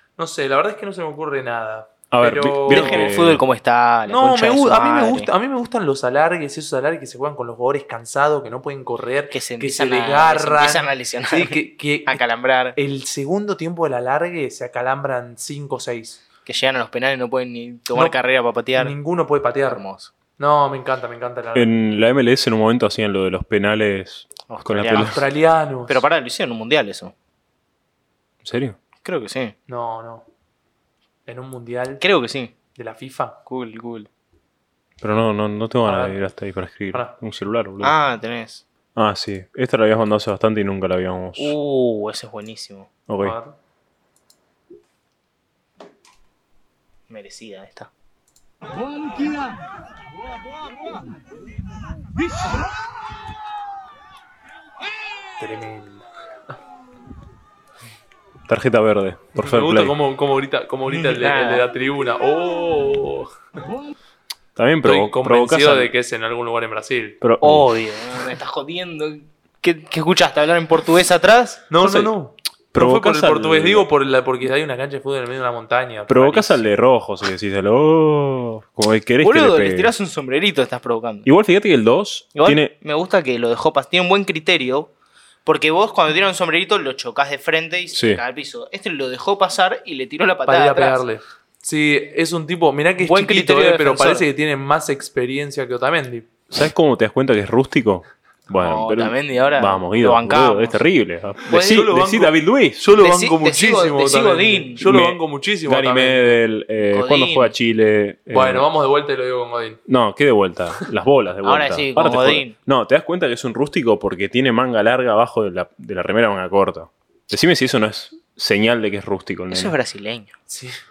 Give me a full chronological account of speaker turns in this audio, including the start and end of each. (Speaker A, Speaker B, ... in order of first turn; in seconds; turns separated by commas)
Speaker A: 0.2-3.1, Speaker B: 2.1-3.4, Speaker C: 2.7-5.3, Speaker A: 4.1-12.2, Speaker C: 9.3-12.8, Speaker A: 12.7-16.2, Speaker C: 16.4-18.9, Speaker A: 18.8-19.8, Speaker C: 19.7-20.1, Speaker A: 20.4-21.7, Speaker B: 21.5-25.2, Speaker C: 24.5-25.2, Speaker A: 24.9-26.1, Speaker C: 25.9-27.1, Speaker B: 28.4-28.8, Speaker C: 29.0-29.5, Speaker A: 29.7-30.2, Speaker A: 31.3-32.0, Speaker C: 32.0-32.5, Speaker A: 32.7-33.4, Speaker C: 33.5-34.1, Speaker B: 35.0-37.9, Speaker A: 35.9-36.2, Speaker C: 37.8-38.6, Speaker B: 39.0-41.5, Speaker C: 41.4-42.9, Speaker B: 43.1-43.4, Speaker A: 43.2-43.5, Speaker C: 47.1-47.9, Speaker A: 55.4-56.0, Speaker B: 58.5-60.0, Speaker A: 59.4-63.3, Speaker C: 60.9-61.6, Speaker B: 64.5-65.9, Speaker A: 64.8-67.2, Speaker B: 67.2-67.7, Speaker C: 67.4-71.6, Speaker A: 71.7-76.6, Speaker B: 71.8-72.1, Speaker B: 72.7-73.9, Speaker B: 76.1-79.9, Speaker C: 79.2-81.3, Speaker B: 81.2-82.7, Speaker C: 82.3-84.9, Speaker C: 85.5-91.0, Speaker B: 87.9-88.2, Speaker A: 90.5-96.3, Speaker C: 93.0-94.2, Speaker B: 96.5-102.8, Speaker C: 98.6-100.8, Speaker A: 101.5-106.4, Speaker C: 103.0-104.8, Speaker B: 104.8-108.7, Speaker C: 106.9-107.5, Speaker A: 108.3-109.8, Speaker B: 109.9-119.7, Speaker C: 111.4-112.5, Speaker C: 119.5-120.3, Speaker A: 120.5-120.8